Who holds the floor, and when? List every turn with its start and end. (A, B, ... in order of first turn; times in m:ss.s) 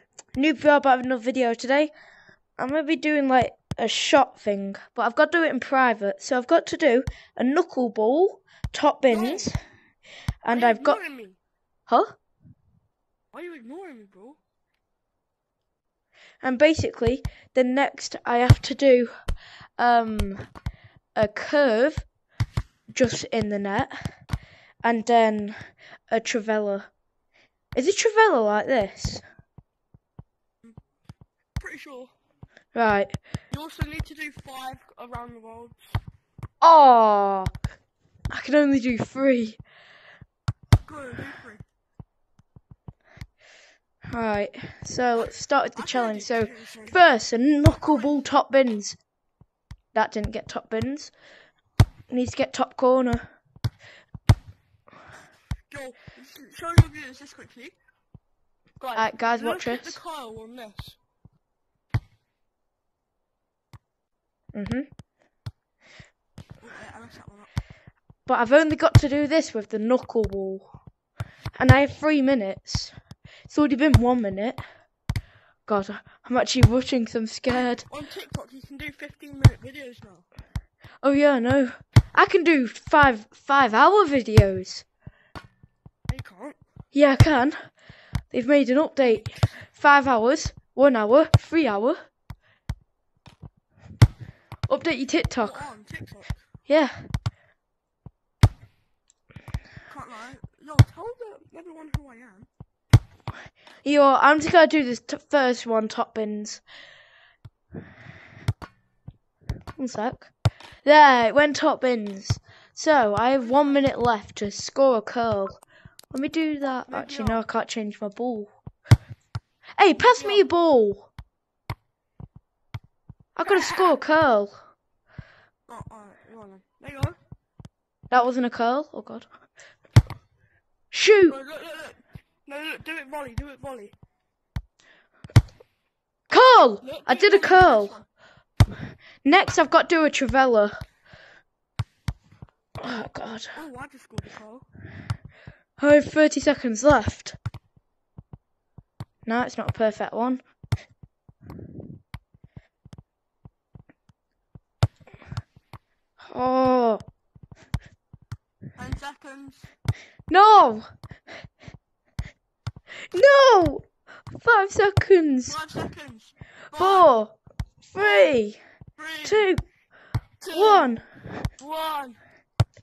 0:00.3-0:01.9 A
0:02.6-0:09.6 A
0:09.1-0:09.5 B
0:10.4-0:11.0 A
0:10.5-0:11.4 B
0:11.9-0:12.1 A
0:13.3-0:14.4 B
0:16.4-0:19.1 A
0:19.8-0:20.5 A
0:21.2-0:22.0 A
0:22.9-0:23.9 A
0:24.8-0:25.5 A
0:26.1-0:26.9 A
0:27.7-0:29.2 A
0:31.6-0:32.1 B
0:32.7-0:33.2 A
0:33.5-0:36.0 B
0:36.6-0:37.5 A
0:38.3-0:39.6 A
0:40.8-0:41.6 B
0:44.1-0:49.0 A
0:45.2-0:47.0 B
0:49.9-0:51.1 A
0:52.1-0:53.2 A
0:55.7-0:57.7 B
0:58.8-1:01.0 B
0:59.0-1:00.0 A
1:04.5-1:04.9 A
1:06.6-1:07.5 B
1:08.3-1:10.7 A
1:11.6-1:12.9 A
1:13.5-1:14.6 A
1:15.7-1:17.9 A
1:17.5-1:20.2 B
1:21.0-1:24.8 A
1:26.1-1:26.6 B
1:26.9-1:27.6 A
1:28.3-1:32.0 A
1:29.2-1:29.5 B
1:34.7-1:35.6 A
1:35.4-1:36.3 B
1:36.7-1:37.1 A
1:39.9-1:42.5 B
1:43.8-1:46.6 A
1:49.8-1:50.3 A
1:50.8-1:58.5 A
1:53.4-1:53.8 B
1:56.8-1:57.4 B
1:59.8-2:01.1 A
2:00.1-2:00.5 B
2:03.4-2:04.5 A
2:03.4-2:03.9 B
2:05.7-2:07.2 B
2:08.1-2:09.2 A
2:10.9-2:11.4 A
2:11.3-2:13.9 B
2:16.3-2:18.0 A
2:16.8-2:18.0 B
2:19.2-2:20.7 A
2:22.8-2:23.5 A
2:23.5-2:24.6 B
2:25.8-2:27.4 A
2:29.2-2:30.4 A
2:36.3-2:37.0 A
2:38.8-2:39.6 B
2:40.3-2:40.8 A
2:43.1-2:45.6 A
2:45.4-2:47.1 B
2:46.7-2:47.3 A
2:47.9-2:48.6 A
2:48.0-2:48.3 B
2:49.0-2:49.5 B
2:49.2-2:49.6 A
2:50.4-2:51.0 B
2:50.5-2:51.0 A
2:51.6-2:52.2 B